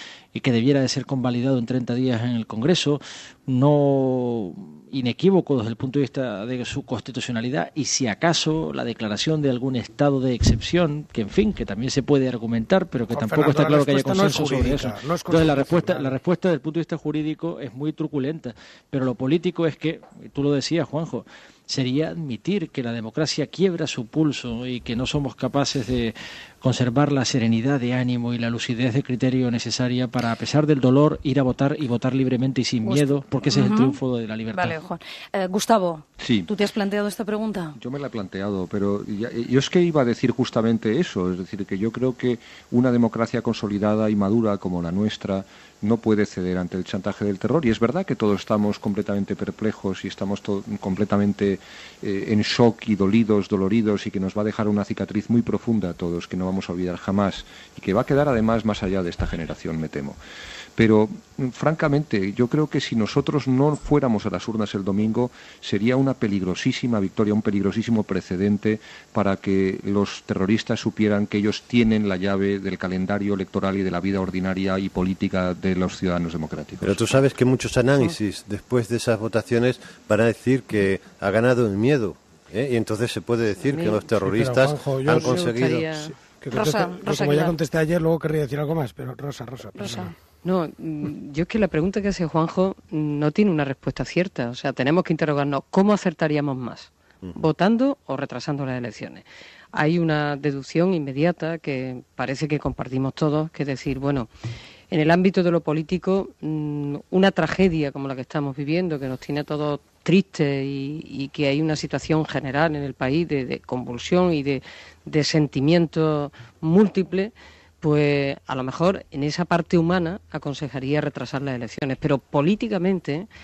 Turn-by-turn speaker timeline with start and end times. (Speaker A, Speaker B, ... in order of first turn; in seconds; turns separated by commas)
Speaker A: 0.3-34.7, Speaker B: 13.1-16.1, Speaker C: 32.8-34.0, Speaker C: 34.5-37.8, Speaker D: 36.2-36.5, Speaker D: 37.8-60.2, Speaker D: 60.8-77.2, Speaker E: 76.8-85.9, Speaker F: 83.6-84.0, Speaker B: 84.2-85.5, Speaker F: 85.1-86.1, Speaker B: 86.3-90.1, Speaker C: 86.5-87.5, Speaker C: 89.8-90.1, Speaker F: 89.8-104.3, Speaker F: 104.9-123.3